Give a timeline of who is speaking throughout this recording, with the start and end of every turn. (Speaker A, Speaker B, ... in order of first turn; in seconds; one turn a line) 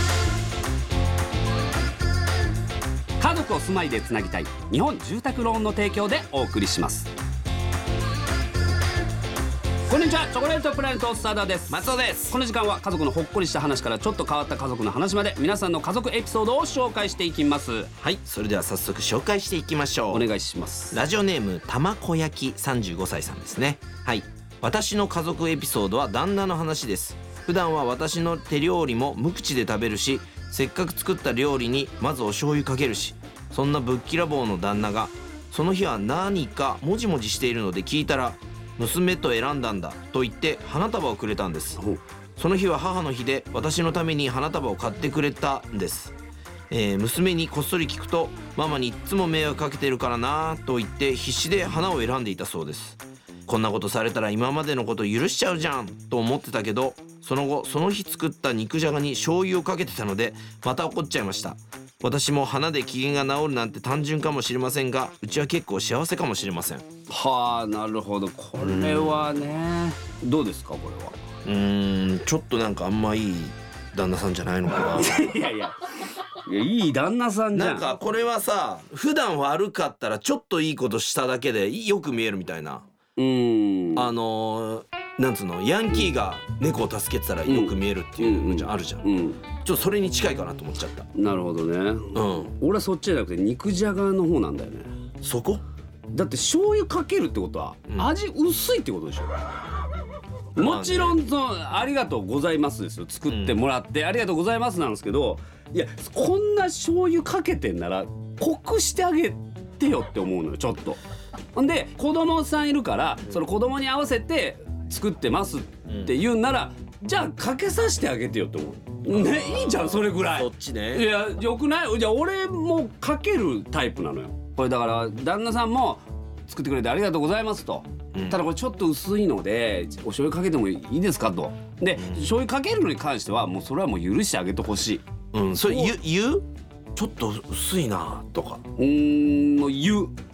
Speaker A: 3.2-7.1
Speaker A: 9.9-17.9
Speaker B: 11.7-12.4
Speaker B: 18.0-20.3
Speaker A: 20.1-21.0
Speaker B: 20.9-41.8
Speaker B: 42.4-46.2
Speaker B: 46.7-66.8
Speaker A: 67.1-71.2
Speaker B: 68.6-69.3
Speaker B: 71.4-75.3
Speaker A: 74.8-77.9
Speaker B: 77.5-82.8
Speaker A: 83.2-84.1
Speaker B: 84.0-89.1
Speaker A: 87.5-89.4
Speaker B: 89.6-91.1
Speaker A: 91.1-94.9
Speaker B: 92.1-92.5
Speaker B: 95.2-95.6
Speaker A: 96.1-99.5
Speaker A: 100.5-111.0
Speaker B: 100.5-101.2
Speaker B: 103.3-103.6
Speaker A: 111.5-135.0
Speaker B: 115.9-116.1
Speaker B: 119.1-121.1
Speaker B: 128.1-128.4
Speaker B: 132.0-132.2
Speaker B: 135.3-138.6
Speaker A: 135.6-135.9
Speaker A: 138.8-140.2